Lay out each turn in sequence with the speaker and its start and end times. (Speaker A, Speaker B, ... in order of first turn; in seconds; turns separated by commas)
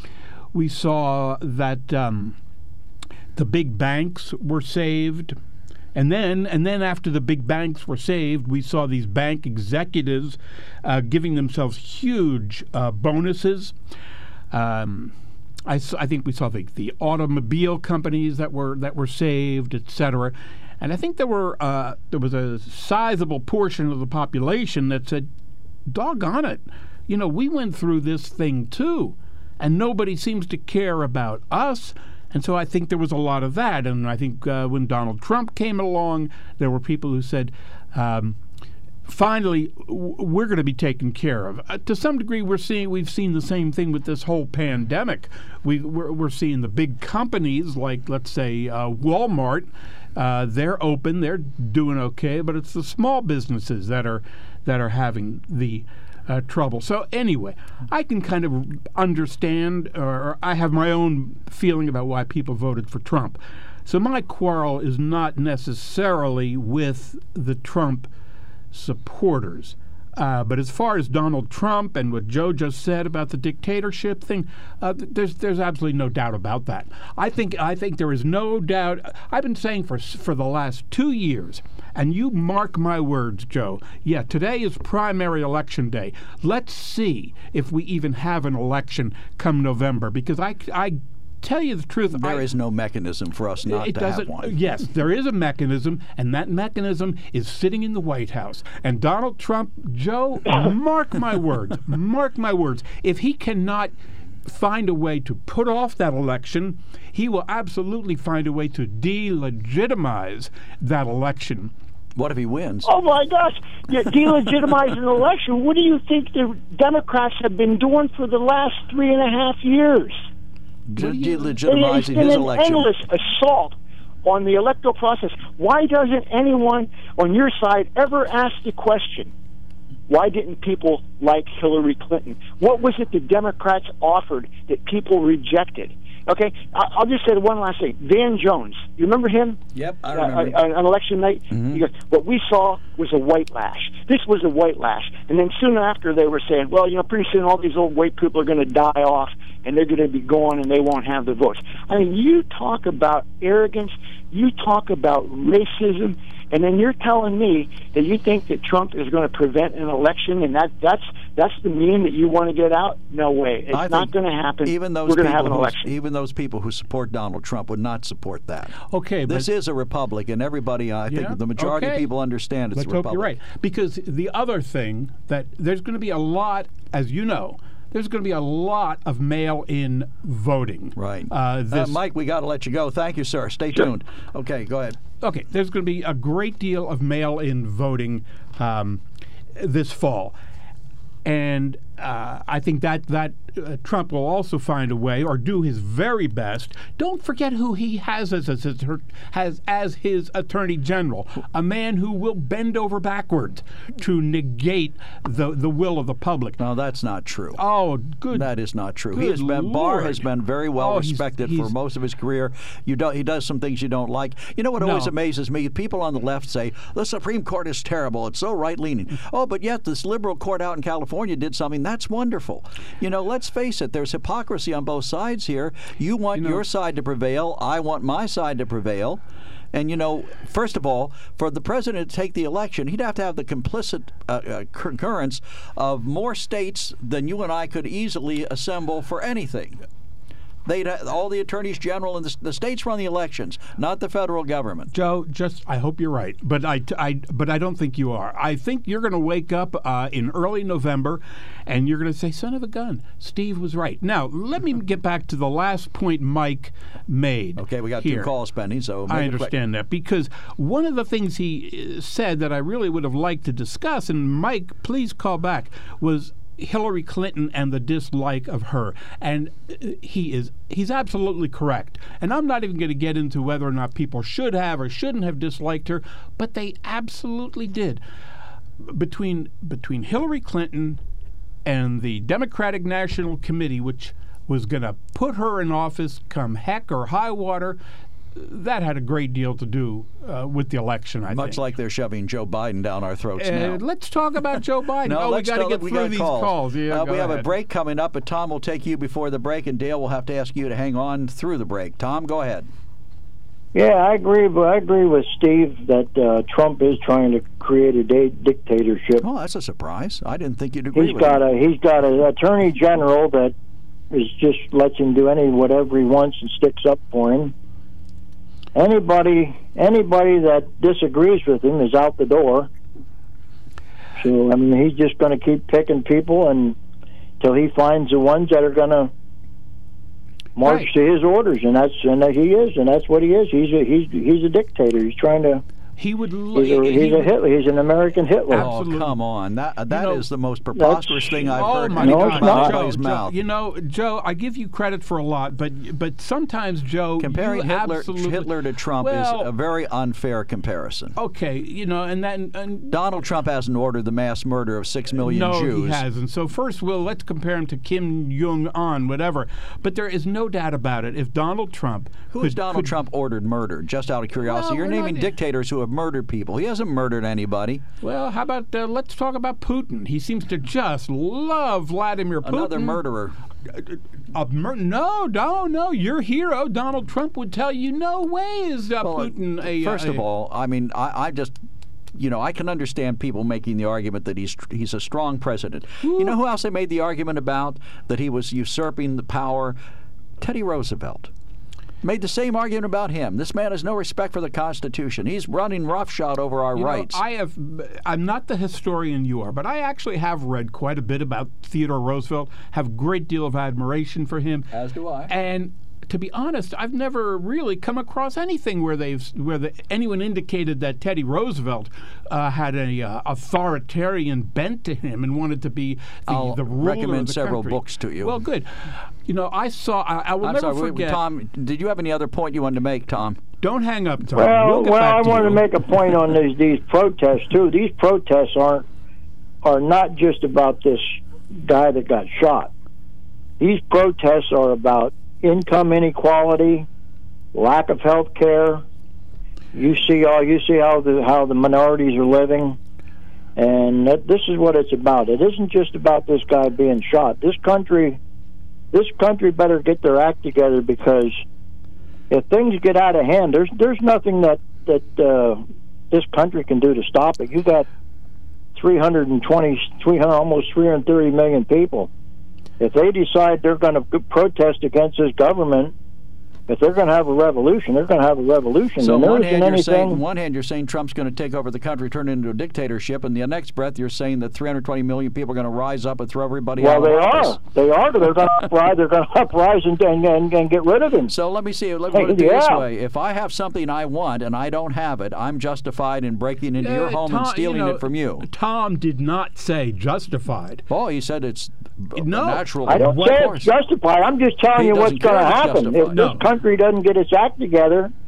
Speaker A: 0.5-2.4, Speaker A: 3.4-5.3, Speaker A: 5.9-13.7, Speaker A: 14.5-15.1, Speaker A: 15.7-25.3, Speaker A: 25.9-38.4, Speaker A: 39.1-68.1, Speaker A: 68.7-92.5, Speaker B: 92.2-94.5, Speaker A: 93.7-103.9, Speaker A: 104.5-111.7, Speaker B: 112.2-112.9, Speaker C: 112.8-120.2, Speaker B: 120.9-122.9, Speaker A: 121.0-121.6, Speaker C: 121.7-129.3, Speaker C: 130.1-139.6, Speaker B: 139.7-140.6, Speaker C: 140.1-165.9, Speaker B: 141.5-141.8, Speaker B: 163.7-164.1, Speaker B: 164.6-168.7, Speaker A: 168.9-169.5, Speaker B: 169.2-173.3, Speaker A: 171.1-172.1, Speaker A: 172.8-182.0, Speaker B: 180.9-185.0, Speaker A: 185.2-189.0, Speaker A: 189.6-190.3, Speaker A: 191.2-206.6, Speaker B: 206.6-207.6, Speaker A: 207.6-208.5, Speaker B: 208.3-229.2, Speaker A: 209.1-210.2, Speaker A: 210.8-211.7, Speaker A: 214.8-215.1, Speaker A: 226.3-226.6, Speaker B: 229.7-239.8, Speaker B: 240.6-244.9, Speaker A: 244.9-258.3, Speaker B: 257.6-259.5, Speaker A: 259.1-278.0, Speaker A: 278.8-281.0, Speaker A: 281.6-287.8, Speaker A: 288.3-291.6, Speaker B: 291.3-293.8, Speaker A: 293.4-297.5, Speaker B: 295.0-302.7, Speaker D: 303.7-309.2, Speaker B: 309.2-311.4, Speaker D: 310.9-313.5, Speaker D: 314.1-317.5, Speaker D: 318.7-322.7, Speaker D: 324.2-326.8, Speaker D: 327.4-329.1, Speaker D: 330.6-335.6, Speaker A: 330.6-330.9, Speaker A: 336.0-337.3, Speaker D: 336.5-338.7, Speaker A: 338.5-339.1, Speaker B: 338.5-343.4, Speaker A: 339.9-340.2, Speaker D: 340.8-341.3, Speaker A: 341.5-348.5, Speaker D: 341.9-342.8, Speaker B: 347.2-351.1, Speaker A: 349.0-349.5, Speaker A: 351.2-353.0, Speaker B: 352.9-356.0, Speaker A: 355.2-362.9, Speaker B: 362.3-367.8, Speaker A: 364.4-365.3, Speaker A: 368.0-373.0, Speaker B: 372.4-373.4, Speaker A: 373.7-380.2, Speaker B: 379.0-381.6, Speaker B: 382.1-389.8, Speaker A: 386.0-386.4, Speaker B: 390.4-391.3, Speaker B: 392.0-397.2, Speaker A: 396.8-404.7, Speaker B: 404.7-405.3, Speaker A: 405.3-421.2, Speaker B: 416.3-418.4, Speaker B: 420.4-423.4, Speaker A: 423.6-425.6, Speaker D: 424.4-428.8, Speaker D: 429.6-432.7, Speaker D: 433.6-436.9, Speaker D: 437.5-438.8, Speaker D: 439.7-442.8, Speaker D: 443.6-448.2, Speaker D: 448.9-451.4, Speaker D: 452.3-457.9, Speaker D: 458.8-462.1, Speaker D: 462.8-465.9, Speaker D: 466.7-470.2, Speaker B: 469.0-477.6, Speaker D: 476.8-481.3, Speaker B: 481.3-488.4, Speaker D: 482.1-482.8, Speaker A: 486.8-490.8, Speaker B: 490.9-493.7, Speaker A: 492.2-493.6, Speaker D: 492.9-498.1, Speaker B: 494.7-496.4, Speaker A: 496.1-496.4